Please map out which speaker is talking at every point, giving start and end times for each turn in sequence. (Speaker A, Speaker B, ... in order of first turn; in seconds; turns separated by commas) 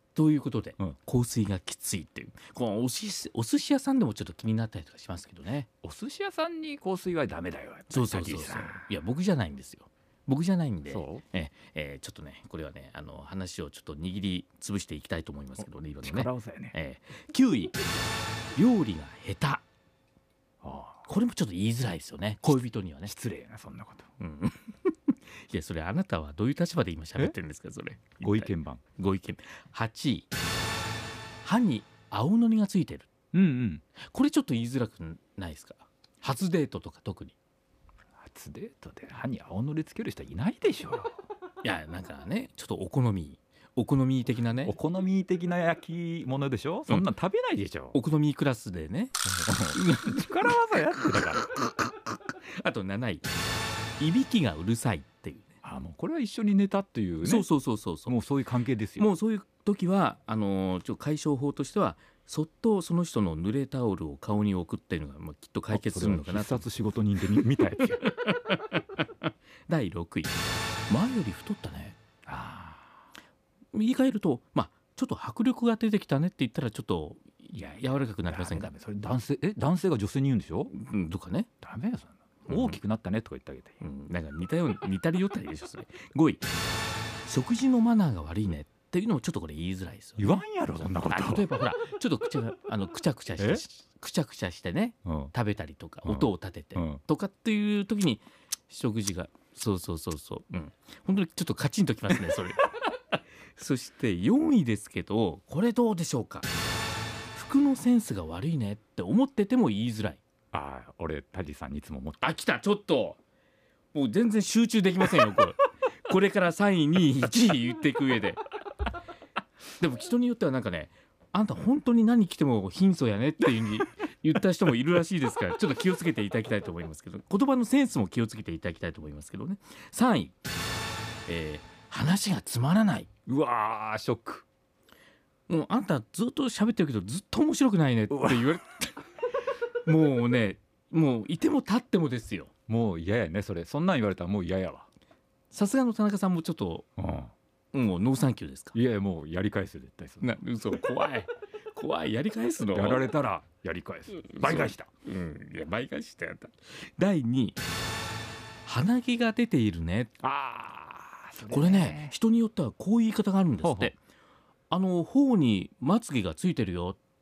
Speaker A: 0.1-5.7, Speaker B: 5.8-8.8, Speaker A: 7.9-17.8, Speaker B: 10.9-11.2, Speaker B: 16.0-16.7, Speaker A: 18.5-19.6, Speaker B: 20.6-21.0, Speaker A: 21.1-23.1, Speaker B: 23.1-24.1, Speaker A: 24.2-30.2, Speaker B: 28.2-28.8, Speaker A: 31.4-33.1, Speaker B: 33.3-33.8, Speaker A: 34.0-37.4, Speaker B: 38.2-41.1, Speaker A: 41.6-44.7, Speaker B: 44.6-48.0, Speaker A: 47.9-53.3, Speaker B: 49.4-51.5, Speaker A: 54.0-55.5, Speaker B: 55.6-57.5, Speaker A: 57.2-58.2, Speaker B: 58.1-59.0, Speaker A: 59.0-66.7, Speaker B: 65.7-68.1, Speaker A: 67.3-72.0, Speaker B: 72.3-72.9, Speaker A: 73.7-78.7, Speaker B: 77.5-80.7, Speaker A: 80.7-81.5, Speaker B: 81.6-83.8, Speaker A: 82.5-82.8, Speaker A: 83.8-86.4, Speaker A: 87.2-90.4, Speaker B: 90.2-91.5, Speaker A: 91.0-106.5, Speaker B: 95.0-95.3, Speaker B: 96.0-97.0, Speaker A: 107.3-110.2, Speaker B: 110.5-112.2, Speaker A: 112.2-113.2, Speaker A: 113.9-118.5, Speaker A: 119.8-130.3, Speaker A: 131.3-133.1, Speaker B: 133.3-134.4, Speaker A: 135.5-139.0, Speaker B: 138.1-138.4, Speaker A: 139.8-142.5, Speaker B: 142.7-144.9, Speaker A: 145.5-146.9, Speaker B: 147.0-147.3, Speaker A: 147.7-148.7, Speaker B: 148.7-150.4, Speaker A: 150.2-153.1, Speaker B: 152.7-154.9, Speaker A: 154.2-157.6, Speaker A: 158.6-160.1, Speaker B: 160.2-162.1, Speaker A: 161.5-163.9, Speaker B: 163.6-163.9, Speaker A: 164.7-167.0